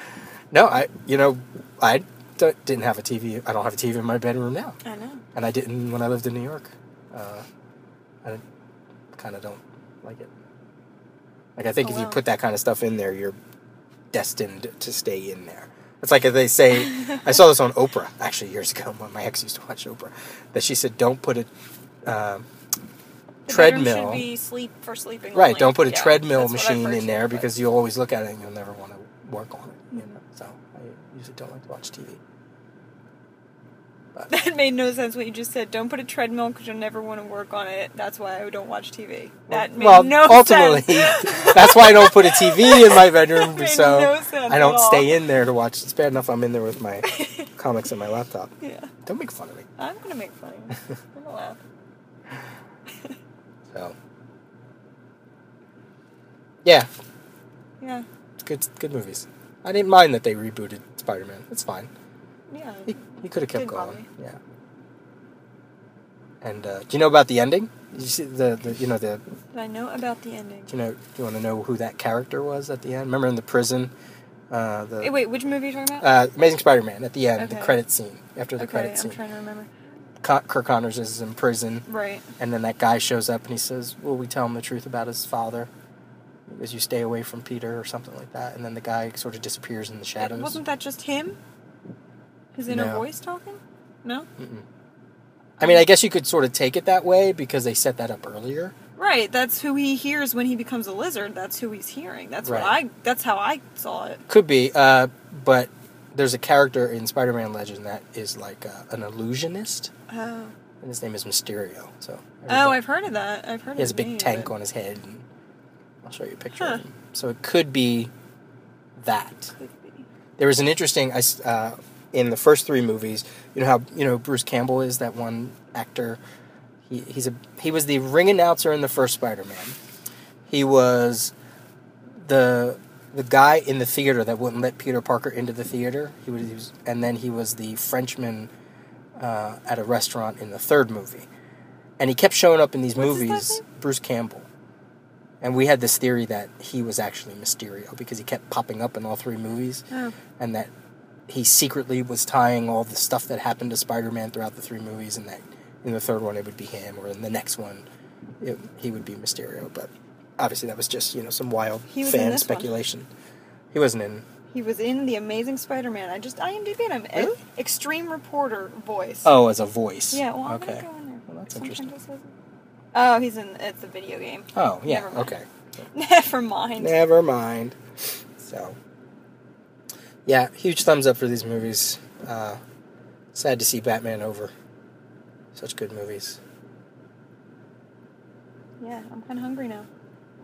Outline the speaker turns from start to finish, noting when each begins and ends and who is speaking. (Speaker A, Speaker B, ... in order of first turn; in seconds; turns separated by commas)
Speaker A: 0.5-4.8, Speaker B: 4.8-5.2, Speaker A: 5.3-7.5, Speaker A: 9.1-10.3, Speaker A: 11.6-13.4, Speaker B: 11.8-12.2, Speaker A: 14.1-21.5, Speaker A: 22.1-22.5, Speaker A: 23.5-24.3, Speaker B: 23.5-27.5, Speaker A: 25.3-32.2, Speaker B: 34.3-45.2, Speaker A: 39.5-48.5, Speaker B: 47.0-47.5, Speaker B: 48.6-48.9, Speaker A: 49.0-49.7, Speaker B: 49.8-51.6, Speaker B: 57.8-58.1, Speaker A: 58.4-61.9, Speaker B: 62.5-64.1, Speaker A: 62.9-64.4, Speaker A: 66.4-69.2, Speaker B: 69.5-70.7, Speaker A: 70.7-73.9, Speaker A: 74.5-75.2, Speaker B: 75.0-76.1, Speaker A: 76.0-79.2, Speaker B: 77.4-77.8, Speaker B: 78.6-79.7, Speaker A: 80.2-81.9, Speaker B: 81.9-82.3, Speaker A: 82.4-85.7, Speaker A: 86.5-90.6, Speaker B: 90.2-91.4, Speaker B: 92.5-94.3, Speaker A: 92.7-93.1, Speaker A: 94.4-94.7, Speaker B: 95.6-95.8, Speaker A: 95.6-98.7, Speaker B: 99.0-104.2, Speaker A: 102.4-102.8, Speaker A: 104.3-109.9, Speaker B: 110.1-110.5, Speaker A: 110.8-112.8, Speaker B: 112.5-114.5, Speaker A: 113.8-115.3, Speaker A: 116.0-118.1, Speaker B: 116.6-116.8, Speaker A: 119.0-119.5, Speaker B: 119.6-120.0, Speaker A: 120.4-126.2, Speaker A: 126.9-129.8, Speaker A: 130.5-131.3, Speaker A: 132.2-138.5, Speaker A: 139.2-141.3, Speaker A: 142.0-144.5, Speaker B: 142.9-143.6, Speaker A: 145.4-149.8, Speaker B: 149.9-150.2, Speaker A: 150.4-150.7, Speaker A: 151.3-157.8, Speaker A: 158.4-163.1, Speaker B: 161.9-162.7, Speaker A: 163.7-164.3, Speaker B: 164.5-169.3, Speaker A: 169.2-171.9, Speaker B: 170.1-172.3, Speaker B: 172.9-175.3, Speaker A: 174.6-175.5, Speaker B: 175.9-177.0, Speaker A: 176.8-177.8, Speaker A: 178.4-178.8, Speaker A: 180.3-182.6, Speaker A: 183.3-184.5, Speaker A: 185.5-186.4, Speaker B: 188.8-189.9